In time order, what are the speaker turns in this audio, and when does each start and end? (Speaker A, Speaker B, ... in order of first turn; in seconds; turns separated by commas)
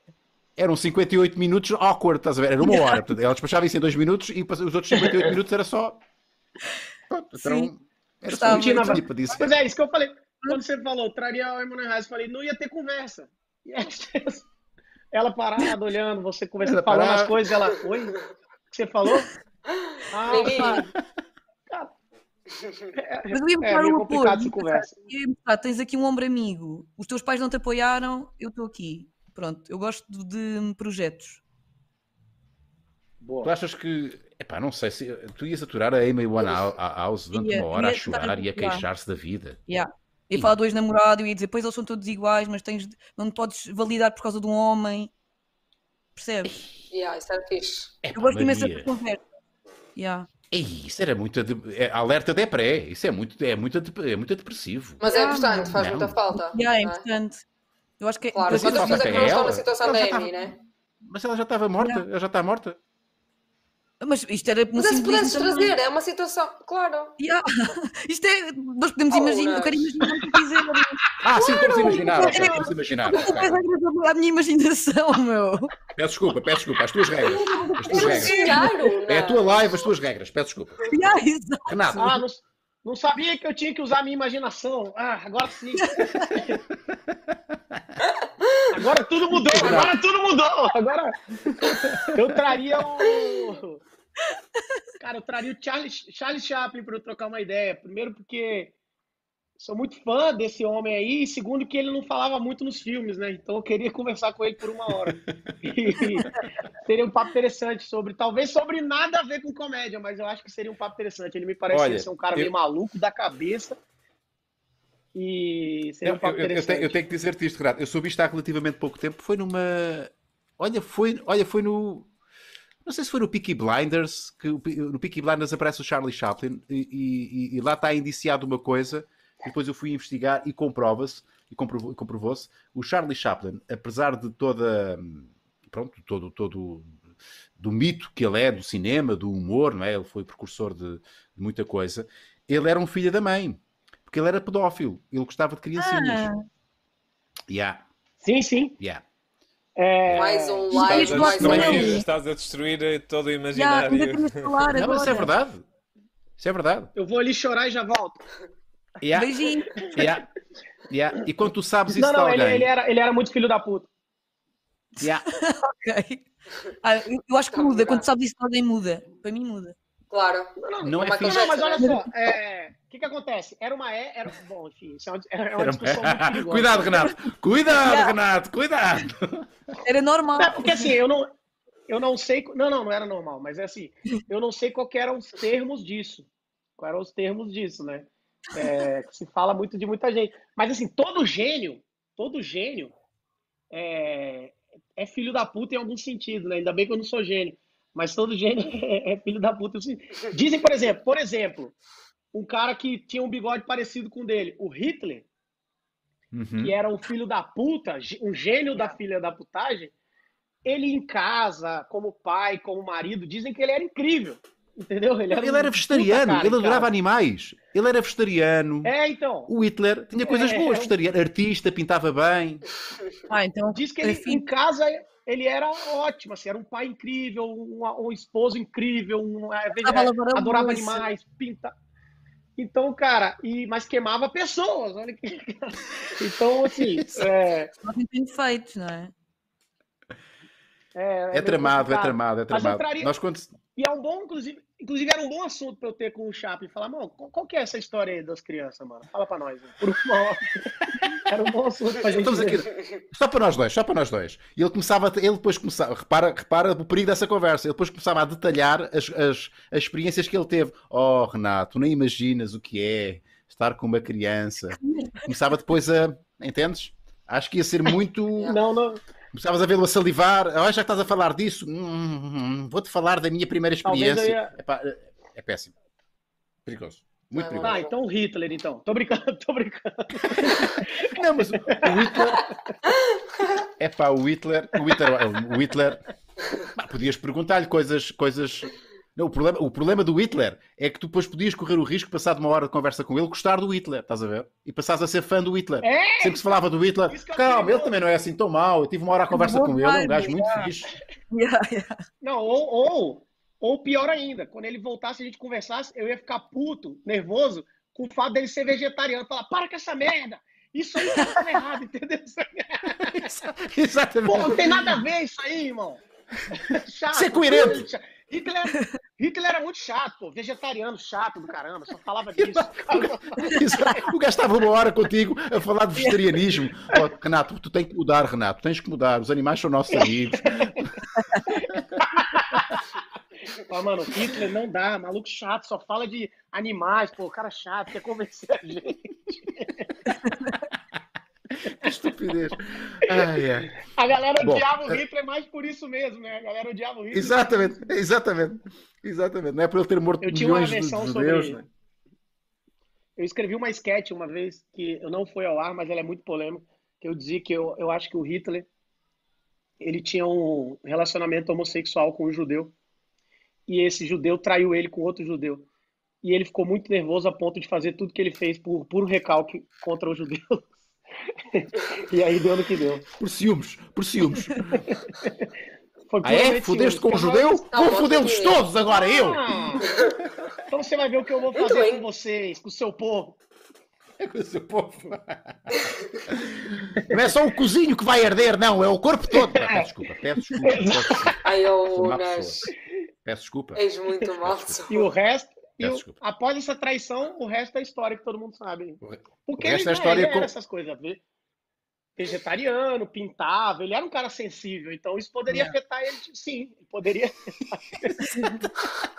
Speaker A: 0.6-6.0, Speaker B: 2.6-3.0, Speaker A: 7.1-9.6, Speaker B: 7.4-7.7, Speaker B: 8.2-9.0, Speaker C: 8.4-14.5, Speaker C: 15.1-18.2, Speaker A: 16.6-17.5, Speaker C: 18.7-19.3, Speaker D: 19.7-20.8, Speaker C: 20.1-20.9, Speaker C: 22.9-25.0, Speaker B: 23.3-31.4, Speaker C: 33.2-33.5, Speaker A: 33.4-39.6, Speaker B: 37.3-38.9, Speaker B: 39.7-45.1, Speaker B: 46.1-46.6, Speaker A: 46.4-46.8, Speaker D: 46.9-47.9, Speaker A: 48.0-48.9, Speaker B: 48.1-49.2, Speaker B: 50.0-50.3, Speaker A: 50.5-56.2, Speaker D: 55.0-57.0, Speaker B: 55.0-55.7, Speaker B: 56.3-57.4, Speaker B: 58.0-59.4, Speaker D: 58.3-60.5, Speaker A: 58.5-62.8, Speaker B: 61.8-62.0, Speaker B: 64.0-65.8, Speaker D: 64.8-67.2, Speaker B: 67.2-75.7, Speaker D: 69.1-69.9, Speaker A: 71.2-73.6, Speaker C: 71.5-72.7, Speaker A: 76.0-80.9, Speaker D: 77.3-79.6, Speaker B: 77.4-78.9, Speaker B: 80.9-82.2, Speaker A: 81.7-82.2, Speaker C: 82.0-86.6, Speaker B: 85.8-86.3, Speaker D: 88.4-88.7, Speaker C: 88.7-91.2, Speaker A: 89.5-90.0, Speaker D: 89.6-89.9, Speaker A: 91.4-92.1, Speaker C: 92.1-93.8, Speaker C: 95.0-98.7, Speaker C: 99.6-113.8, Speaker A: 111.7-112.5, Speaker C: 115.1-117.0, Speaker A: 116.0-122.1, Speaker A: 122.8-137.0, Speaker A: 137.6-146.3, Speaker B: 145.8-146.4, Speaker A: 147.5-147.8, Speaker C: 148.2-148.8, Speaker C: 149.8-151.9, Speaker A: 150.0-150.3, Speaker D: 150.2-151.9, Speaker B: 150.7-152.1, Speaker E: 150.8-154.7, Speaker A: 151.4-151.9, Speaker B: 153.5-155.3, Speaker A: 154.7-155.6, Speaker A: 156.4-156.9, Speaker C: 156.9-158.2, Speaker A: 159.0-160.3, Speaker B: 159.1-160.0, Speaker A: 160.9-162.7, Speaker C: 161.9-163.9, Speaker B: 165.0-166.2, Speaker B: 166.8-169.7, Speaker D: 167.5-168.1, Speaker D: 170.1-171.9, Speaker C: 170.6-177.1, Speaker A: 170.8-171.6, Speaker A: 175.6-179.5, Speaker B: 179.8-180.9, Speaker C: 180.4-181.3, Speaker C: 181.9-186.3, Speaker C: 186.8-192.9, Speaker C: 193.7-201.7, Speaker C: 202.3-205.2, Speaker A: 206.3-206.7, Speaker C: 206.6-209.9, Speaker C: 210.6-216.9, Speaker A: 215.3-218.9, Speaker C: 218.8-219.5, Speaker A: 219.5-222.6, Speaker C: 220.2-220.9, Speaker B: 223.3-224.4, Speaker C: 223.7-231.7, Speaker B: 229.8-231.0, Speaker C: 232.6-237.7, Speaker B: 237.8-239.1, Speaker C: 240.9-243.1, Speaker A: 241.3-243.6, Speaker C: 243.7-252.7, Speaker A: 252.1-268.6, Speaker B: 264.8-265.3, Speaker C: 268.4-269.0, Speaker A: 269.3-275.7, Speaker C: 273.8-274.5, Speaker A: 276.6-277.8, Speaker D: 277.3-277.9, Speaker C: 277.6-282.5, Speaker A: 280.2-282.4, Speaker A: 283.8-286.0, Speaker A: 286.7-300.9, Speaker C: 295.8-296.4, Speaker C: 297.1-298.0, Speaker B: 299.3-300.7, Speaker B: 301.3-302.0, Speaker C: 302.2-313.3, Speaker A: 313.0-315.0, Speaker C: 314.2-323.6, Speaker A: 317.1-317.8, Speaker A: 322.4-330.9, Speaker B: 323.5-323.9, Speaker C: 329.9-330.8, Speaker B: 331.1-331.5, Speaker C: 331.5-332.8, Speaker C: 333.5-339.9, Speaker B: 340.2-340.5, Speaker A: 341.5-343.7, Speaker C: 343.8-347.8, Speaker A: 344.4-345.0, Speaker A: 347.1-351.7, Speaker C: 350.2-351.6, Speaker C: 353.2-358.7, Speaker C: 359.8-362.7, Speaker C: 363.7-365.6, Speaker C: 366.2-370.7, Speaker C: 371.5-373.0, Speaker A: 373.2-374.6, Speaker C: 374.8-375.5, Speaker C: 376.1-377.6, Speaker A: 376.2-379.4, Speaker D: 377.7-378.6, Speaker C: 378.9-379.9, Speaker D: 379.9-380.1, Speaker C: 380.7-383.4, Speaker D: 381.5-382.0, Speaker A: 384.2-392.7, Speaker C: 389.3-389.9, Speaker C: 390.6-391.3, Speaker D: 391.4-392.7, Speaker A: 393.2-393.8, Speaker D: 393.7-395.1, Speaker A: 394.4-394.8, Speaker C: 394.9-401.2, Speaker A: 395.8-396.1, Speaker A: 399.0-400.5, Speaker C: 402.2-408.2